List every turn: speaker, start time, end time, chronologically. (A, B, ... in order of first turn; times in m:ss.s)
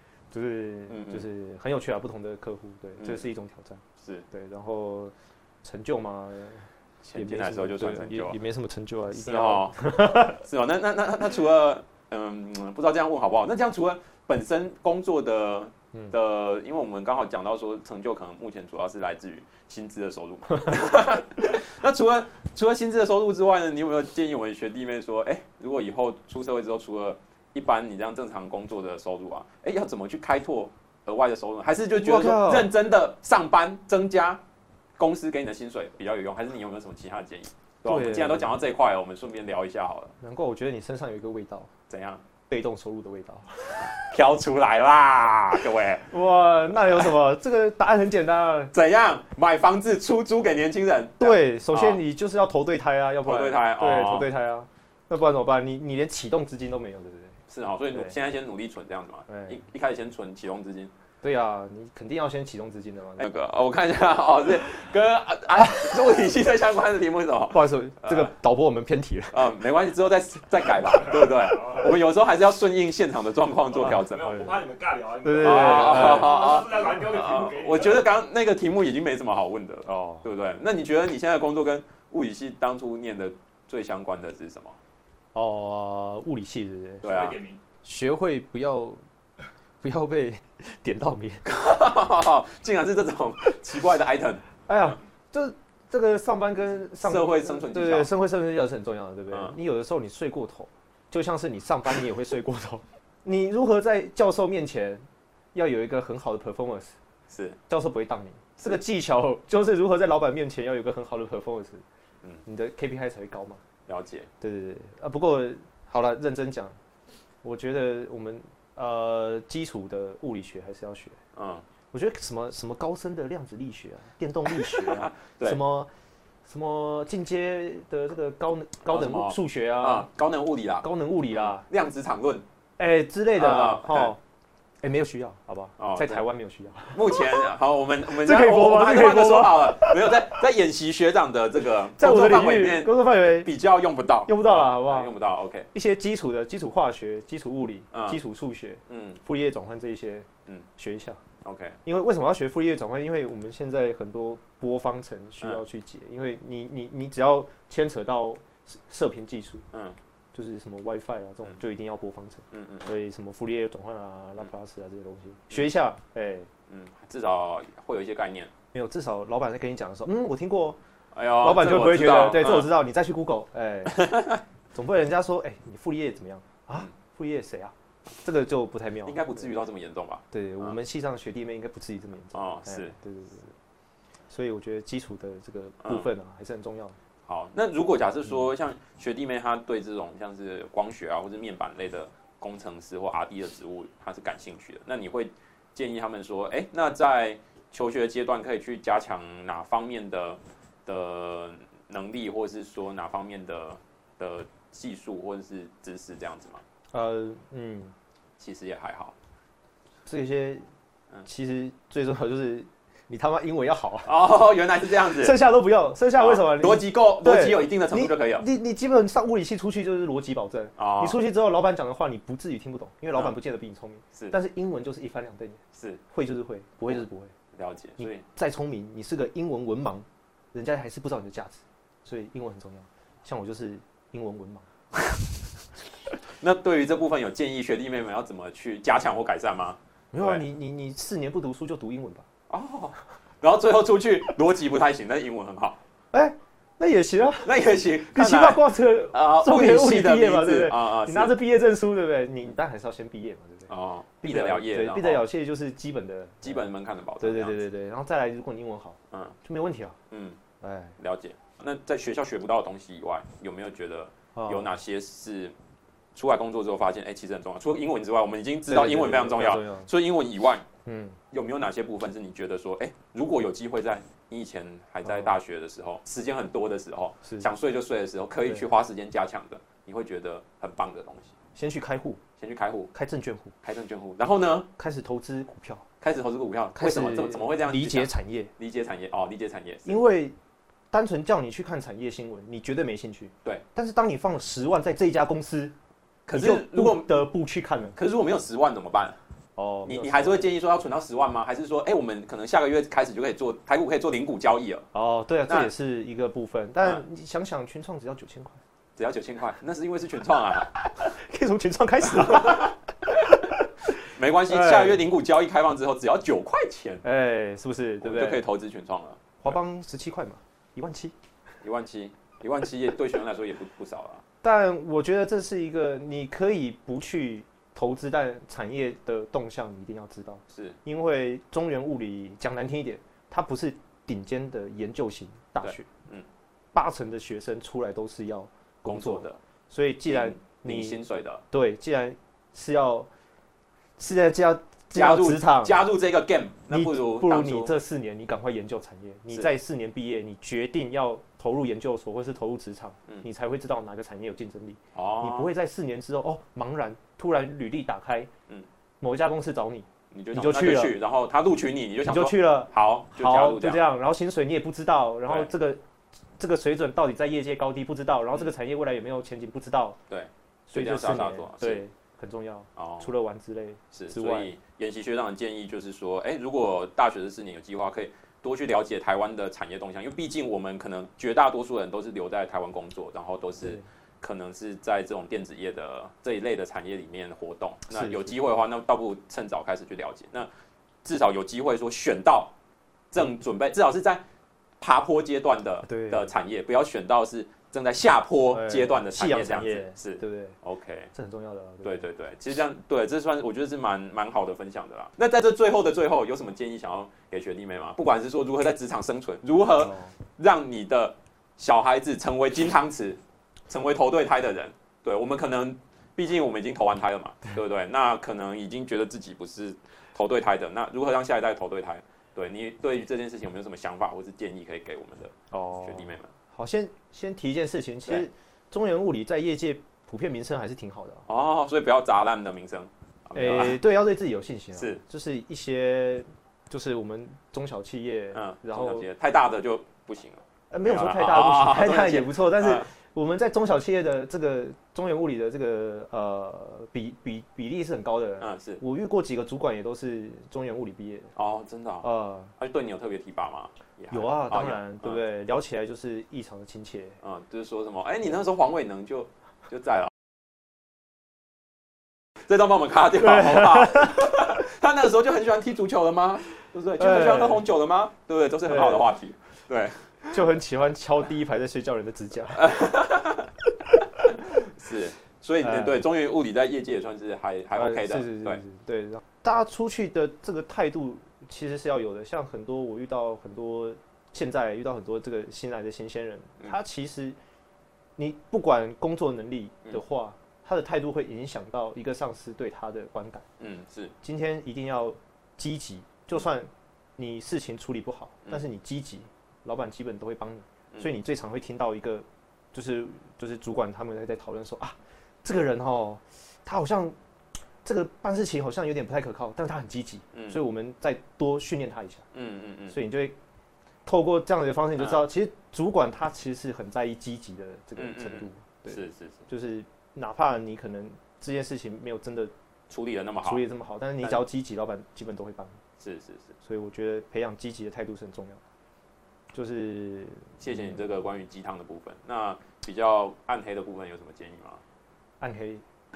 0:00.3-0:10.4 A
0:00.9-0:01.2 B
0:04.0-0:04.2 B
0:07.0-0:08.4 B
0:09.1-0:34.4 B
0:32.0-0:32.7 A
0:35.0-0:40.2 B
0:37.8-0:38.6 A
0:40.2-0:41.7 A
0:41.9-0:42.2 B
0:42.5-0:44.1 A
0:43.9-0:46.1 B
0:46.0-0:48.7 A
0:48.7-0:52.0 B
0:51.2-0:57.4 A
0:53.2-0:54.3 B
0:57.5-1:00.9 B
0:59.3-0:59.6 A
1:01.2-1:03.3 A
1:03.2-1:08.3 B
1:07.5-1:09.5 A
1:09.3-1:14.6 B
1:11.2-1:11.8 C
1:13.8-1:18.0 C
1:14.2-1:14.6 A
1:15.2-1:16.4 A
1:15.4-1:24.8 B
1:19.9-1:20.3 A
1:25.3-1:27.2 A
1:27.0-1:27.4 B
1:27.0-1:27.6 C
1:27.8-1:29.0 A
1:29.8-1:31.4 A
1:31.4-1:34.4 B
1:34.7-1:47.0 A
1:37.0-1:38.1 B
1:39.3-1:39.6 B
1:47.3-1:47.6 B
1:47.7-1:51.8 A
1:52.4-1:53.6 A
1:53.9-1:54.3 B
1:54.4-1:56.8 A
1:57.4-2:01.2 A
2:01.4-2:01.7 B
2:01.9-2:05.9 A
2:04.5-2:05.6 B
2:06.5-2:10.1 A
2:08.9-2:12.4 B
2:10.8-2:11.7 A
2:12.8-2:14.2 A
2:13.4-2:14.1 B
2:14.8-2:17.5 A
2:15.8-2:16.2 B
2:16.9-2:25.7 B
2:18.1-2:20.2 A
2:22.0-2:23.5 A
2:24.3-2:25.1 A
2:25.7-2:31.2 A
2:27.9-2:28.2 B
2:28.9-2:29.2 B
2:31.4-2:31.8 B
2:31.8-2:39.7 A
2:40.3-2:46.5 A
2:42.5-2:42.9 B
2:46.7-2:48.5 B
2:48.7-2:50.8 A
2:51.1-2:52.7 B
2:51.4-2:54.1 A
2:53.9-2:54.4 B
2:54.7-2:59.6 A
2:59.0-3:00.8 B
3:00.3-3:03.5 A
3:02.3-3:03.0 B
3:04.3-3:07.0 A
3:07.3-3:26.6 B
3:26.9-3:28.0 A
3:28.4-3:29.2 B
3:30.1-3:30.7 A
3:31.2-3:34.1 A
3:34.1-3:35.4 B
3:35.1-3:47.3 A
3:36.2-3:38.5 B
3:40.8-3:41.2 B
3:45.7-3:46.0 B
3:47.5-3:48.2 B
3:48.0-3:54.7 A
3:56.4-4:00.4 B
4:00.1-4:02.3 A
4:02.5-4:05.8 B
4:06.1-4:07.6 A
4:07.4-4:11.4 B
4:08.1-4:20.0 A
4:13.7-4:15.2 B
4:16.4-4:17.6 B
4:19.1-4:19.4 B
4:20.1-4:20.4 B
4:20.6-4:21.0 A
4:21.0-4:25.6 B
4:24.4-4:24.8 A
4:26.1-4:30.7 B
4:28.7-4:29.9 A
4:30.9-4:31.2 A
4:31.3-4:41.3 B
4:35.0-4:35.3 A
4:37.2-4:37.5 A
4:41.6-4:42.2 A
4:42.4-4:42.9 B
4:42.9-4:43.6 A
4:43.6-4:44.7 B
4:44.8-4:45.9 A
4:46.0-4:50.0 B
4:46.8-4:48.5 A
4:49.9-4:50.4 A
4:50.9-4:55.7 A
4:56.3-4:57.2 B
4:56.3-4:58.0 A
4:58.0-4:59.2 B
4:59.6-5:00.5 A
4:59.8-5:04.9 B
5:04.9-5:08.6 A
5:09.0-5:10.7 B
5:10.8-5:13.7 A
5:12.1-5:12.7 B
5:14.1-5:17.0 B
5:14.5-5:15.0 A
5:17.0-5:18.4 A
5:18.0-5:19.6 B
5:19.4-5:21.1 A
5:21.6-5:24.2 B
5:24.4-5:35.9 A
5:30.5-5:30.8 B
5:35.6-5:36.3 B
5:36.7-5:43.1 A
5:38.8-5:39.4 B
5:40.1-5:41.4 B
5:44.0-5:45.8 A
5:44.9-5:47.8 B
5:46.7-5:58.3 A
5:54.9-5:55.5 B
5:59.0-6:01.0 A
6:00.1-6:03.8 B
6:02.0-6:05.8 A
6:06.4-6:10.0 A
6:10.1-6:11.8 B
6:10.7-6:14.5 A
6:12.8-6:13.1 B
6:13.9-6:30.5 B
6:27.9-6:28.4 A
6:31.0-6:32.5 B
6:33.1-6:34.2 B
6:34.8-6:41.1 B
6:35.8-6:36.3 A
6:38.5-6:40.6 A
6:41.1-6:42.1 A
6:41.8-7:06.3 B
6:49.8-6:50.1 A
7:05.5-7:11.3 A
7:11.3-7:13.8 B
7:13.3-7:19.1 A
7:14.8-7:15.0 B
7:18.3-7:22.9 B
7:20.7-7:31.3 A
7:28.4-7:28.8 B
7:31.4-7:35.2 B
7:32.0-7:32.5 A
7:34.1-7:37.2 A
7:37.2-7:40.1 B
7:42.4-7:50.1 B
7:43.4-7:44.2 A
7:47.0-7:47.7 A
7:48.7-7:49.1 A
7:50.3-7:52.8 A
7:52.6-7:53.5 B
7:54.5-7:58.6 B
7:55.6-7:56.0 A
7:57.7-8:07.4 A
8:08.2-8:13.5 A
8:13.6-8:14.2 B
8:14.2-8:27.2 A
8:27.8-8:32.3 A
8:30.3-8:30.6 B
8:32.3-8:33.0 B
8:32.9-8:33.4 A
8:34.1-8:42.5 A
8:35.0-8:35.2 B
8:38.0-8:39.4 B
8:42.9-8:43.6 B
8:43.4-8:45.8 A
8:46.0-8:46.6 B
8:46.6-8:48.6 A
8:49.5-8:51.0 A
8:50.6-8:54.8 B
8:55.4-8:55.8 A